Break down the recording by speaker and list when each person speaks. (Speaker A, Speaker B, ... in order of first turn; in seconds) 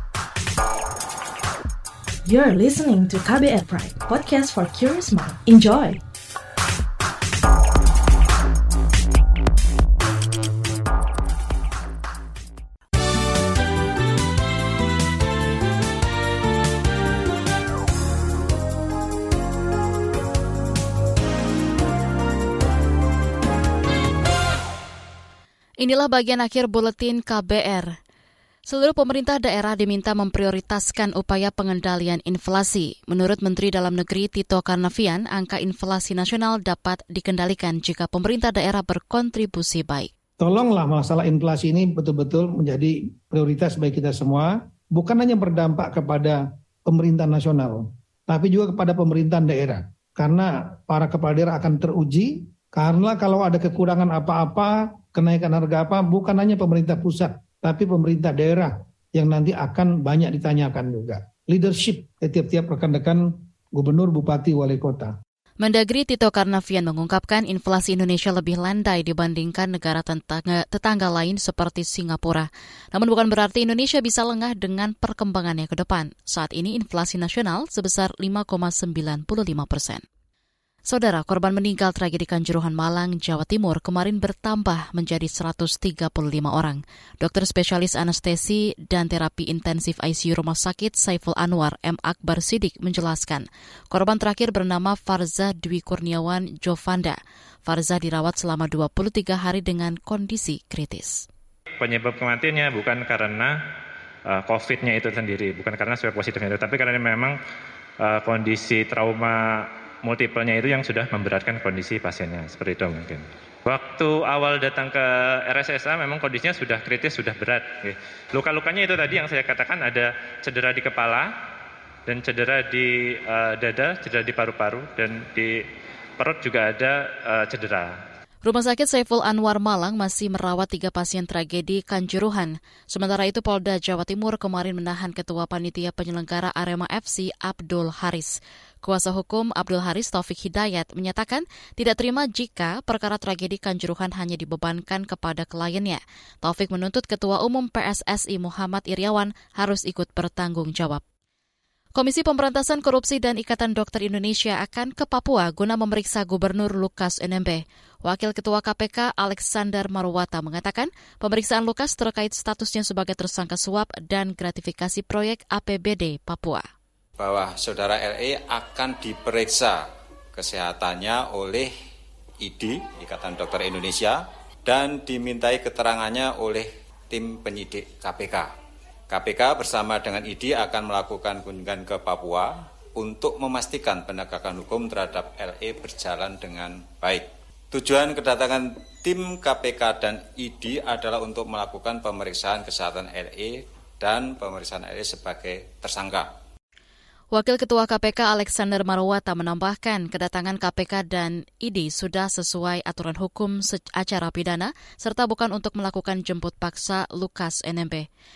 Speaker A: 2.2-6.0
Speaker B: 25.8-27.9, 28.7-40.1, 65.6-80.0, 80.9-101.2, 128.4-151.0, 151.9-166.6, 197.3-208.1
Speaker C: 40.4-65.1
Speaker D: 101.8-103.6, 104.3-107.4, 108.0-121.3, 122.0-125.6, 126.2-127.9
Speaker E: 167.2-171.7, 172.4-178.5, 179.1-196.3